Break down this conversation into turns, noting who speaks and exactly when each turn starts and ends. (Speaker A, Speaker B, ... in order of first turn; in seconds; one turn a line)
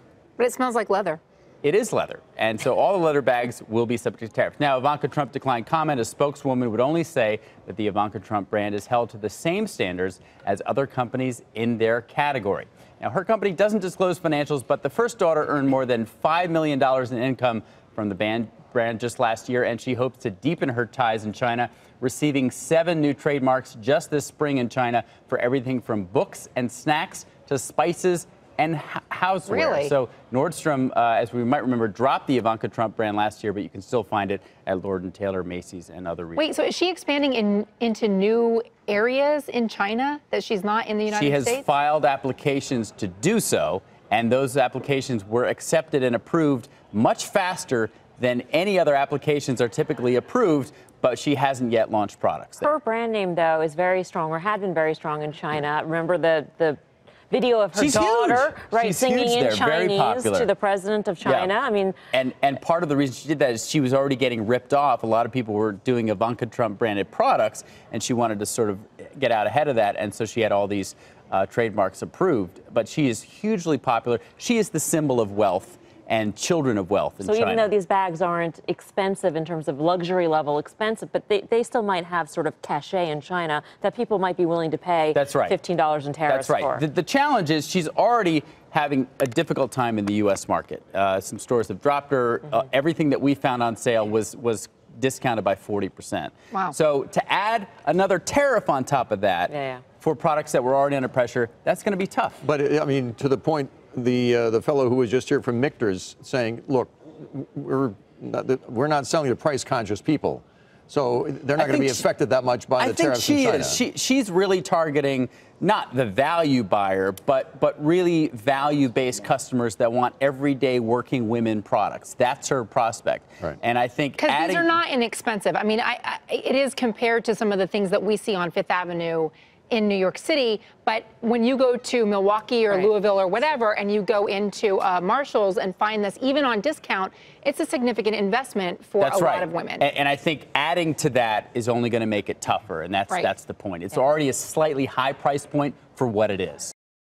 Speaker A: 0.4-1.2
Speaker B: 1.6-36.5
Speaker A: 29.5-29.9
Speaker A: 36.4-41.6
Speaker B: 41.1-52.7
Speaker C: 52.6-62.0
Speaker B: 57.8-60.5
Speaker B: 61.2-61.5
Speaker B: 62.1-77.7
Speaker C: 77.2-86.8
Speaker B: 85.1-85.6
Speaker B: 86.3-102.4
Speaker C: 99.5-99.8
Speaker D: 102.4-113.8
Speaker B: 111.6-112.1
Speaker B: 112.8-124.8
Speaker A: 124.2-139.9
Speaker B: 139.0-146.7